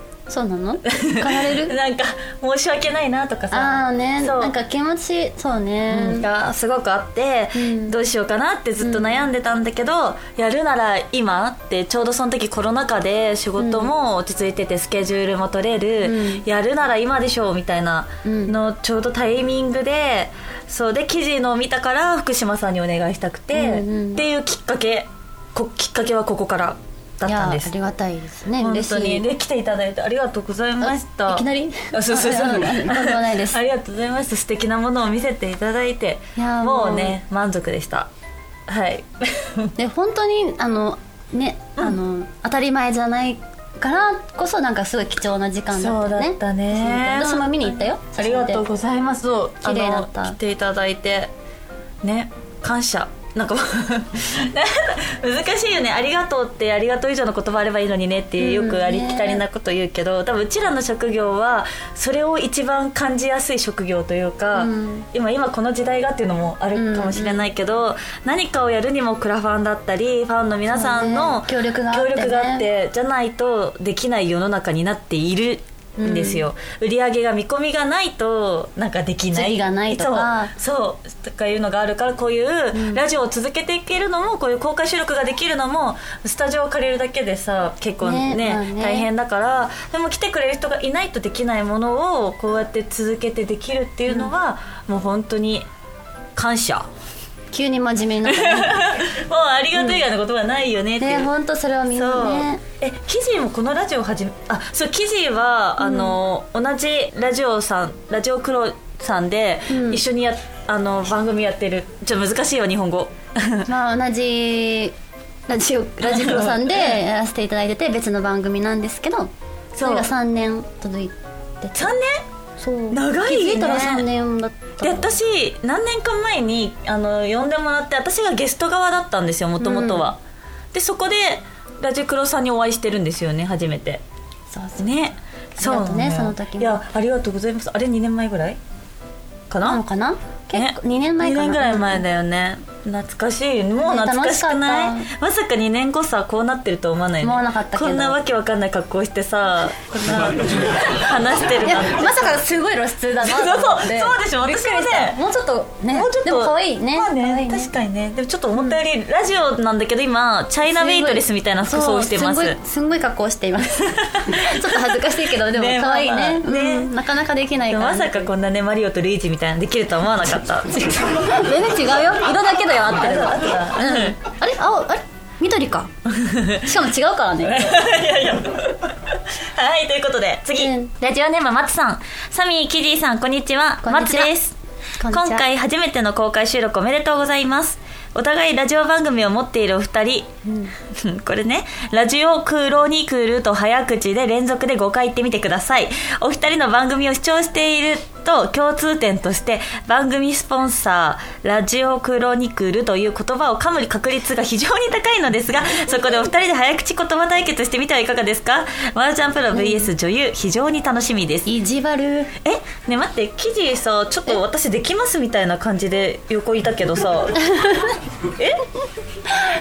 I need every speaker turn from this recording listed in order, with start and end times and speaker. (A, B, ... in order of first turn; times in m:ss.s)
0:00.3-0:01.7 A
0:00.9-0:04.5 B
0:03.5-0:06.3 A
0:05.9-0:27.7 B
0:07.6-0:08.0 A
0:08.8-0:09.2 A
0:13.6-0:13.9 A
0:16.0-0:16.4 A
0:18.2-0:18.6 A
0:23.5-0:24.2 A
0:27.3-0:29.2 A
0:28.6-0:38.1 B
0:30.8-0:33.6 A
0:36.4-0:37.2 A
0:38.7-0:39.7 B
0:39.8-0:48.7 A
0:45.7-0:51.3 B
0:49.6-0:50.4 A
0:52.0-1:35.7 B
0:58.4-0:59.4 A
1:04.5-1:05.1 A
1:06.7-1:07.5 A
1:10.7-1:12.7 A
1:16.0-1:16.4 A
1:19.3-1:20.5 A
1:22.7-1:23.0 A
1:28.0-1:29.1 A
1:36.3-1:36.9 B
1:37.5-1:38.9 A
1:38.2-1:41.3 B
1:41.0-1:42.6 A
1:41.9-1:53.7 B
1:45.8-1:46.2 A
1:49.7-1:50.0 A
1:53.6-1:54.9 A
1:55.5-2:02.0 A
1:56.0-1:57.0 B
1:59.7-2:00.1 B
2:01.8-2:02.2 B
2:02.6-2:05.2 A
2:02.9-2:04.1 B
2:04.8-2:10.2 B
2:09.6-2:10.1 A
2:10.7-2:14.0 B
2:14.5-2:14.8 A
2:14.8-2:18.6 B
2:15.6-2:16.8 A
2:19.5-2:19.8 B
2:19.6-2:22.0 A
2:20.5-2:32.4 B
2:23.8-2:25.1 A
2:27.2-2:28.2 A
2:29.9-2:30.5 A
2:31.6-2:37.7 A
2:33.2-2:35.2 B
2:35.9-2:42.6 B
2:40.7-2:48.3 A
2:43.8-2:46.9 B
2:47.7-2:50.7 B
2:50.7-2:55.9 A
2:52.8-2:54.2 B
2:56.1-2:56.8 B
2:56.6-2:57.8 A
2:57.4-3:04.6 B
3:00.6-3:00.9 A
3:03.8-3:04.3 A
3:05.0-3:05.4 A
3:05.1-3:31.5 B
3:10.4-3:10.7 A
3:29.5-3:29.9 A
3:31.4-3:32.3 A
3:32.4-3:37.4 B
3:37.4-3:38.0 A
3:38.3-3:38.6 B